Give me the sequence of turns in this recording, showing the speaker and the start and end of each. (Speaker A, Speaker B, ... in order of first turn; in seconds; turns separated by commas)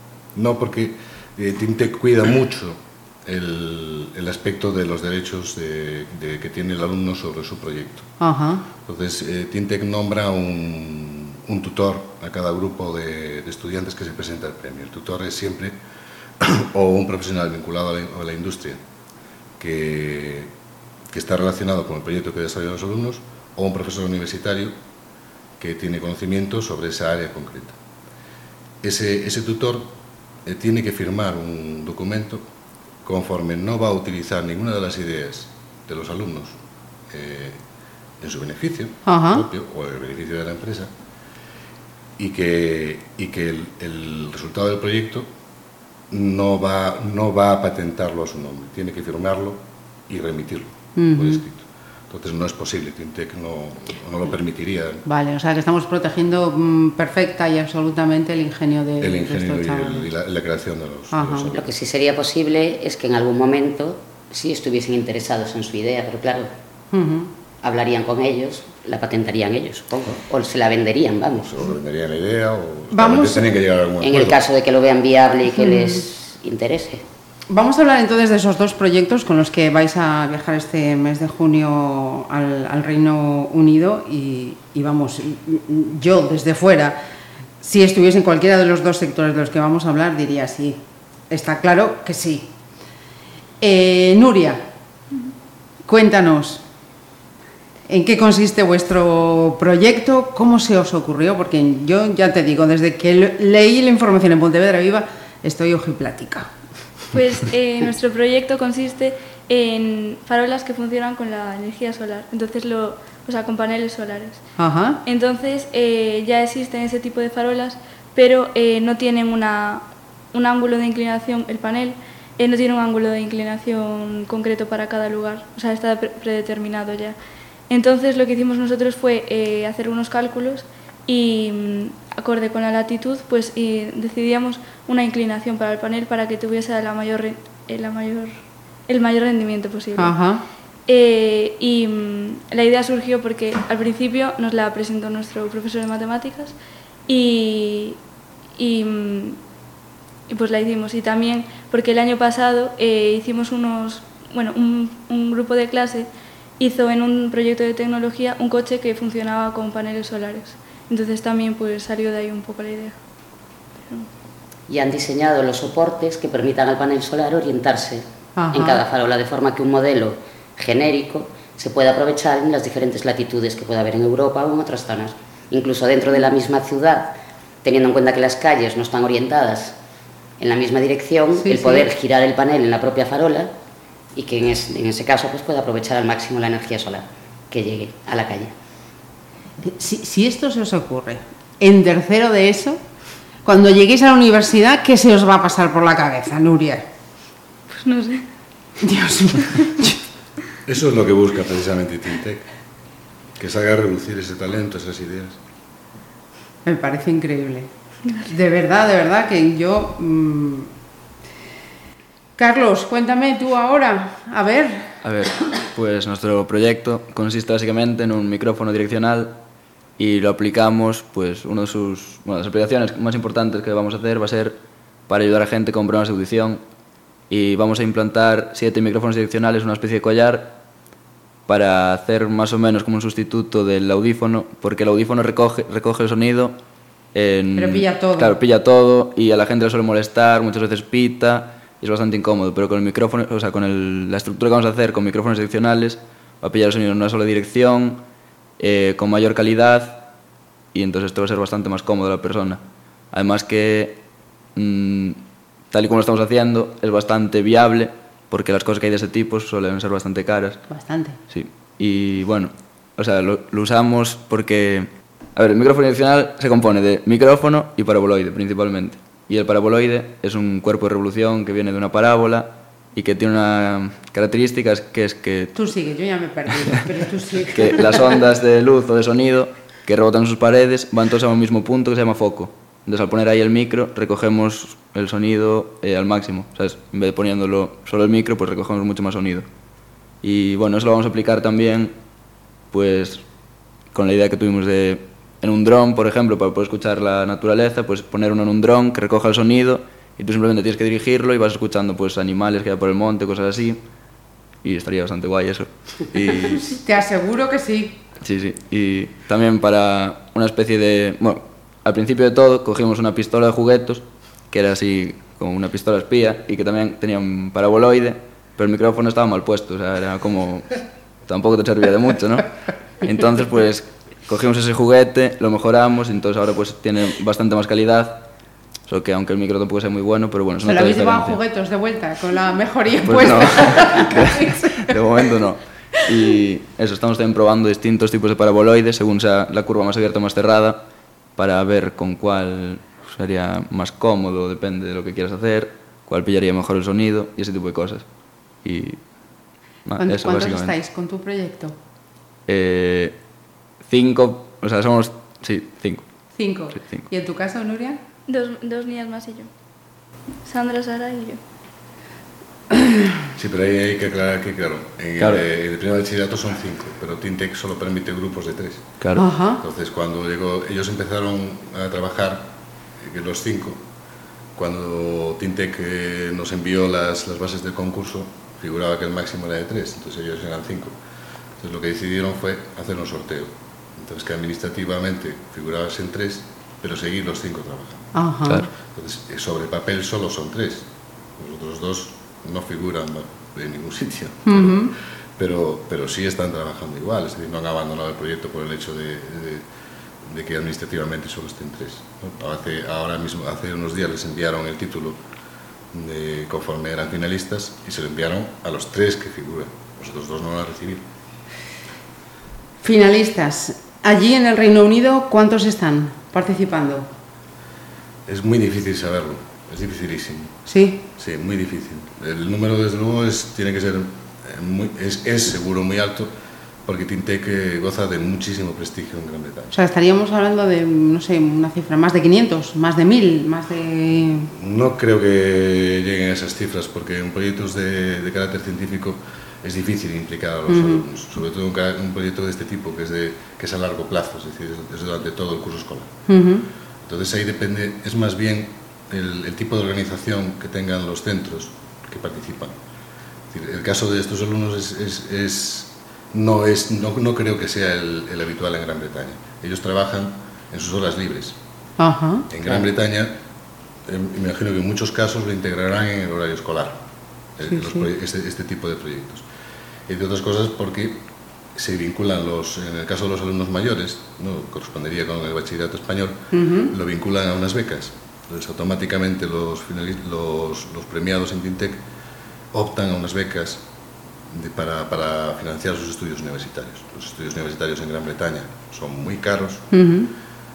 Speaker A: 0.3-8.1, Speaker B: 8.2-8.7, Speaker A: 8.8-15.8, Speaker A: 16.4-18.8, Speaker A: 19.6-20.5, Speaker A: 21.1-24.8, Speaker A: 25.6-27.8, Speaker A: 28.8-32.5, Speaker A: 33.0-36.6, Speaker A: 37.1-37.6, Speaker A: 38.2-40.9, Speaker B: 39.1-39.5, Speaker A: 42.2-45.3, Speaker A: 46.1-55.0, Speaker B: 51.0-51.4, Speaker B: 55.1-60.1, Speaker A: 59.0-61.6, Speaker B: 61.1-61.6, Speaker C: 61.5-66.5, Speaker B: 66.9-67.3, Speaker C: 67.6-71.5, Speaker A: 71.3-74.4, Speaker B: 72.9-73.5, Speaker C: 74.0-77.0, Speaker B: 77.5-87.0, Speaker B: 87.6-92.5, Speaker B: 93.6-94.7, Speaker B: 95.9-96.6, Speaker B: 97.9-106.5, Speaker D: 107.1-114.4, Speaker B: 114.6-115.0, Speaker D: 115.0-127.2, Speaker D: 127.7-138.3, Speaker D: 138.9-140.2, Speaker B: 140.0-140.4, Speaker D: 140.9-146.6, Speaker D: 147.1-148.0, Speaker D: 148.6-149.4, Speaker D: 150.3-163.0, Speaker C: 164.7-179.8, Speaker B: 168.4-168.8, Speaker C: 180.4-183.5, Speaker B: 181.4-181.9, Speaker C: 184.2-188.5, Speaker B: 189.6-192.8, Speaker B: 193.4-196.8, Speaker D: 197.7-198.3, Speaker B: 198.8-200.0, Speaker A: 200.7-202.5, Speaker A: 203.4-205.4, Speaker B: 206.7-207.7, Speaker B: 208.2-210.7, Speaker B: 212.4-215.0, Speaker E: 215.0-219.4, Speaker E: 220.0-224.6, Speaker E: 225.1-226.6, Speaker E: 227.3-230.6, Speaker E: 231.5-236.6, Speaker E: 237.1-248.0, Speaker B: 237.6-238.4, Speaker E: 248.6-250.0, Speaker E: 250.7-252.6, Speaker E: 253.1-254.0, Speaker E: 254.6-260.7, Speaker B: 260.7-261.2, Speaker E: 261.3-275.6, Speaker B: 275.6-278.2, Speaker E: 277.5-289.5, Speaker E: 290.2-291.9, Speaker E: 292.7-293.2, Speaker E: 293.9-303.8, Speaker E: 304.6-306.8, Speaker B: 306.7-308.0, Speaker E: 308.2-328.3, Speaker E: 328.9-331.4, Speaker B: 330.6-335.2, Speaker E: 333.1-340.8, Speaker E: 341.4-348.1, Speaker E: 348.6-349.1, Speaker E: 349.9-350.8, Speaker B: 350.0-351.8, Speaker E: 352.5-353.1, Speaker E: 353.8-356.1, Speaker B: 356.4-358.0, Speaker E: 356.7-357.1, Speaker D: 358.3-359.5, Speaker D: 360.4-361.4, Speaker B: 362.7-363.0, Speaker A: 363.4-368.9, Speaker E: 365.2-365.4, Speaker B: 369.2-369.6, Speaker A: 369.6-373.8, Speaker A: 374.6-381.0, Speaker A: 381.6-388.1, Speaker B: 388.1-388.7, Speaker A: 388.9-399.6, Speaker B: 394.5-394.9, Speaker A: 400.2-405.2, Speaker A: 405.9-411.1, Speaker B: 412.8-417.1, Speaker A: 418.3-420.6, Speaker B: 420.7-421.0, Speaker A: 421.2-426.3, Speaker A: 426.9-429.8, Speaker B: 429.7-434.5, Speaker A: 434.5-446.1, Speaker B: 440.7-441.0, Speaker B: 446.3-446.7, Speaker A: 447.0-452.8, Speaker A: 453.5-461.6, Speaker B: 462.0-462.5, Speaker A: 462.5-463.3, Speaker A: 464.1-467.0, Speaker A: 467.6-469.4, Speaker B: 467.7-468.1, Speaker A: 470.1-482.0, Speaker B: 476.5-476.9, Speaker A: 482.7-483.9, Speaker A: 484.5-489.9, Speaker B: 489.9-490.3